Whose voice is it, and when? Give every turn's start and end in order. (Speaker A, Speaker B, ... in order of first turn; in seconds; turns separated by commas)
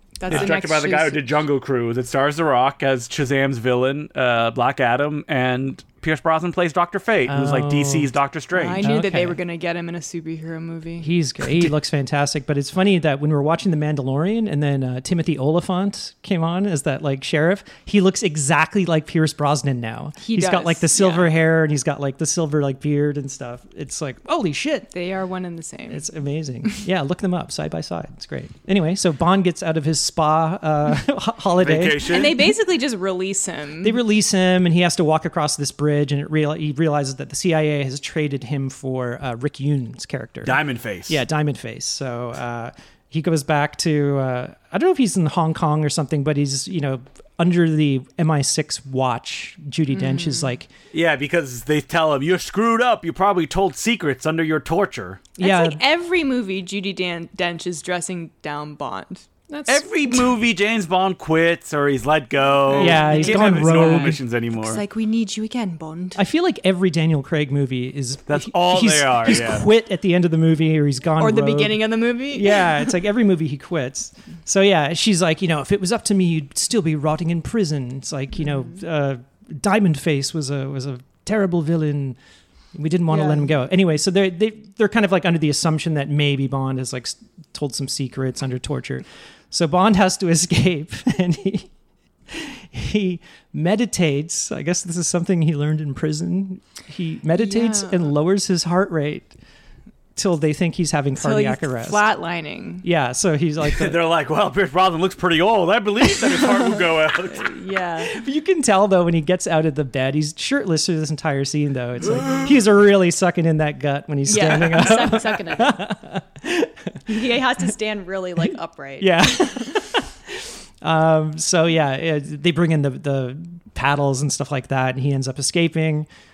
Speaker A: 0.2-1.2, Speaker B: 0.3-8.9, Speaker C: 7.3-8.1, Speaker A: 8.6-11.1, Speaker C: 8.8-9.4, Speaker C: 11.0-24.9, Speaker B: 11.4-11.7, Speaker A: 20.2-21.3, Speaker A: 24.9-26.0, Speaker C: 25.9-32.3, Speaker B: 31.6-32.3, Speaker A: 32.1-34.0, Speaker C: 33.8-50.7, Speaker B: 40.5-41.2, Speaker A: 49.9-50.5, Speaker B: 50.9-55.3, Speaker C: 55.4-55.8, Speaker A: 55.4-60.2, Speaker B: 59.7-64.8, Speaker A: 62.7-66.2, Speaker C: 62.7-64.2, Speaker C: 66.2-82.2, Speaker B: 68.3-69.7, Speaker A: 71.2-72.9, Speaker C: 82.8-91.7, Speaker A: 83.1-83.5, Speaker C: 92.3-99.3, Speaker A: 97.3-98.1, Speaker C: 100.2-102.0, Speaker A: 101.2-102.8, Speaker C: 102.8-104.0, Speaker B: 103.7-107.5, Speaker A: 106.3-106.7, Speaker A: 107.3-108.2, Speaker C: 108.0-117.3, Speaker B: 112.1-112.5, Speaker A: 114.3-115.8, Speaker A: 117.1-119.7, Speaker C: 119.0-126.1